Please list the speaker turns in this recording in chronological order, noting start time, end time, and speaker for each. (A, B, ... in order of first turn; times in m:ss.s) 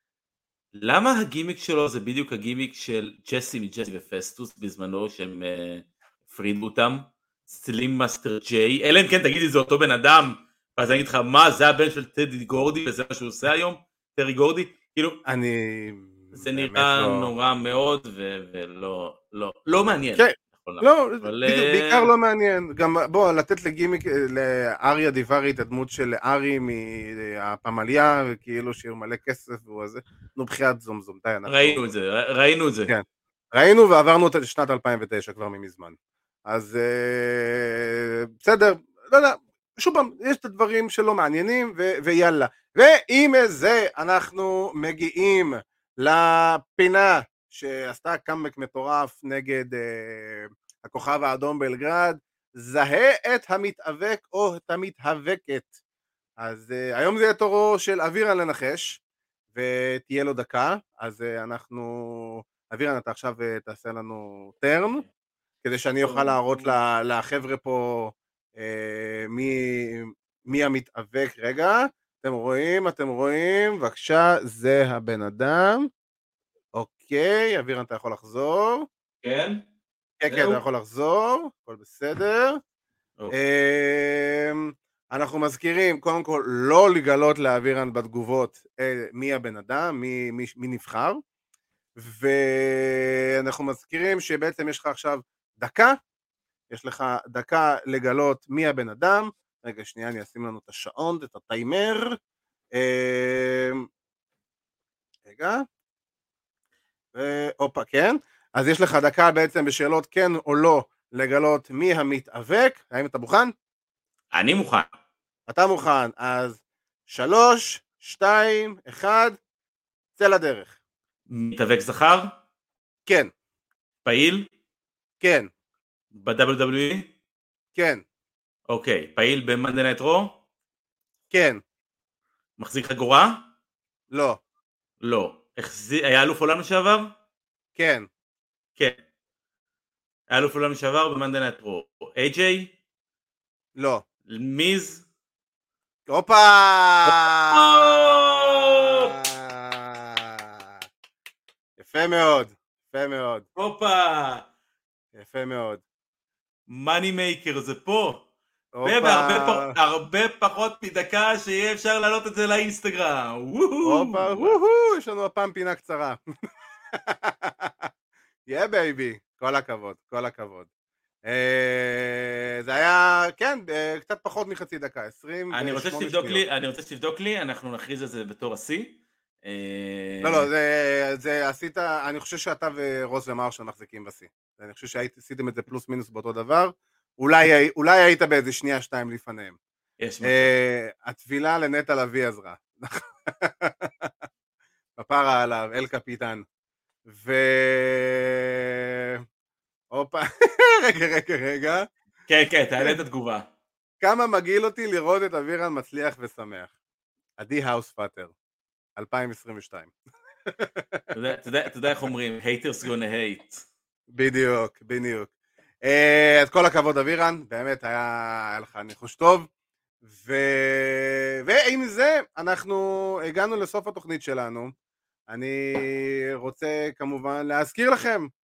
0:00.7-0:15.2 A
0:15.3-0:17.3 B
0:16.3-0:22.1 A
0:20.2-0:31.8 B
0:31.5-0:32.9 A
0:32.9-0:36.0 B
0:36.5-0:55.7 B
0:56.4-0:59.0 B
0:59.5-1:05.0 B
1:05.6-1:15.9 B
1:06.0-1:06.7 A
1:16.7-1:18.9 B
1:19.2-1:19.6 A
1:20.2-1:22.6 B
1:20.3-1:20.6 A
1:23.3-1:31.2 B
1:32.0-1:36.0 B
1:36.7-1:42.2 B
1:42.8-1:43.8 B
1:45.3-1:45.6 B
1:47.1-1:53.5 B
1:54.3-1:54.9 A
1:55.5-1:59.4 B
2:00.2-2:00.7 B
2:01.3-2:02.3 A
2:04.0-2:04.5 A
2:05.2-2:05.5 B
2:06.1-2:07.1 A
2:07.8-2:08.0 B
2:08.7-2:10.4 A
2:11.3-2:11.6 B
2:12.6-2:13.4 A
2:14.1-2:14.4 B
2:15.0-2:17.1 A
2:17.8-2:18.1 B
2:20.3-2:22.7 A
2:23.8-2:24.0 B
2:24.3-2:25.0 A
2:26.1-2:30.7 B
2:27.0-2:29.1 A
2:31.8-2:33.4 B
2:33.6-2:34.4 A
2:35.1-2:35.8 B
2:36.7-2:38.2 A
2:38.7-2:39.7 B
2:38.8-2:44.6 A
2:43.8-2:46.2 B
2:46.9-2:47.9 B
2:48.5-2:50.7 B
2:51.3-2:56.4 B
2:55.5-3:00.5 A
3:00.2-3:09.6 B
3:10.0-3:10.5 A
3:10.2-3:14.1 B
3:15.0-3:16.4 B
3:17.1-3:19.2 B
3:19.9-3:21.9 B
3:22.3-3:23.5 A
3:24.0-3:26.7 B
3:27.4-3:28.3 B
3:29.0-3:29.9 B
3:30.4-3:31.1 B
3:31.1-3:33.6 A
3:34.1-3:35.3 B
3:35.8-3:39.5 B
3:40.0-3:44.7 B
3:45.3-3:48.3 B